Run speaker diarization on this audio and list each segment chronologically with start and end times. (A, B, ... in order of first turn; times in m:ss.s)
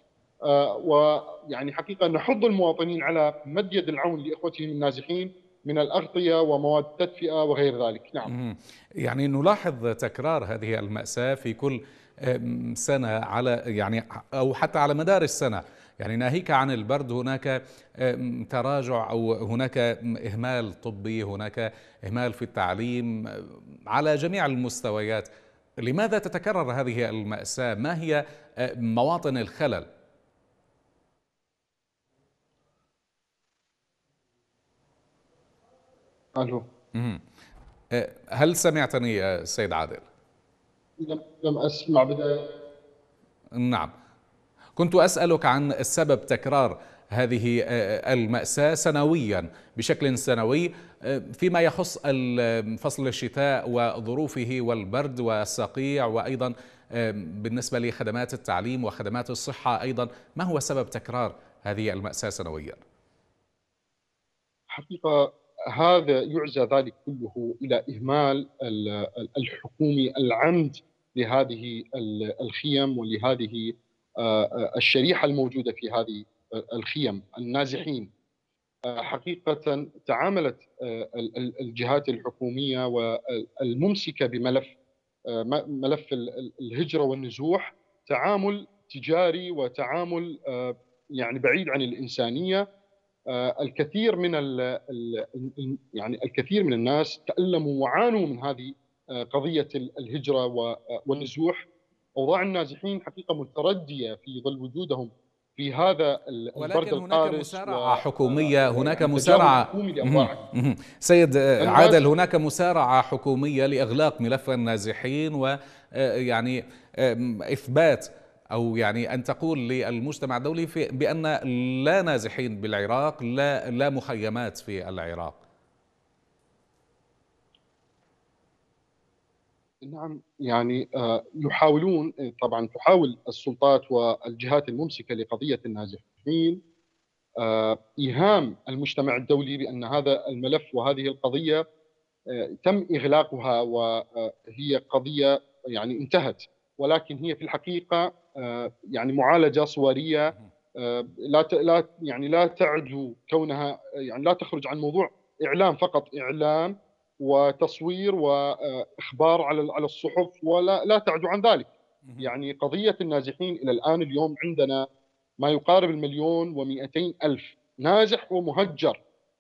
0:00.5-0:08.3 A
0:08.3-0:25.3 B
0:25.8-0:29.9 B
0:36.4-0:36.6 A
0:37.0-0:37.2 B
0:37.9-0:40.0 B
0:41.0-0:42.4 A
0:43.6-0:43.9 B
0:44.8-1:02.8 B
1:04.7-1:18.1 A
1:18.9-1:24.8 A
1:25.3-1:32.6 A
1:33.3-1:41.7 A
1:42.2-1:50.4 A
1:46.6-2:05.4 B
1:51.6-1:52.0 A
2:09.8-2:16.6 A
2:17.4-2:21.6 A
2:22.3-2:44.8 A
2:42.0-2:42.3 B
2:45.4-2:49.0 A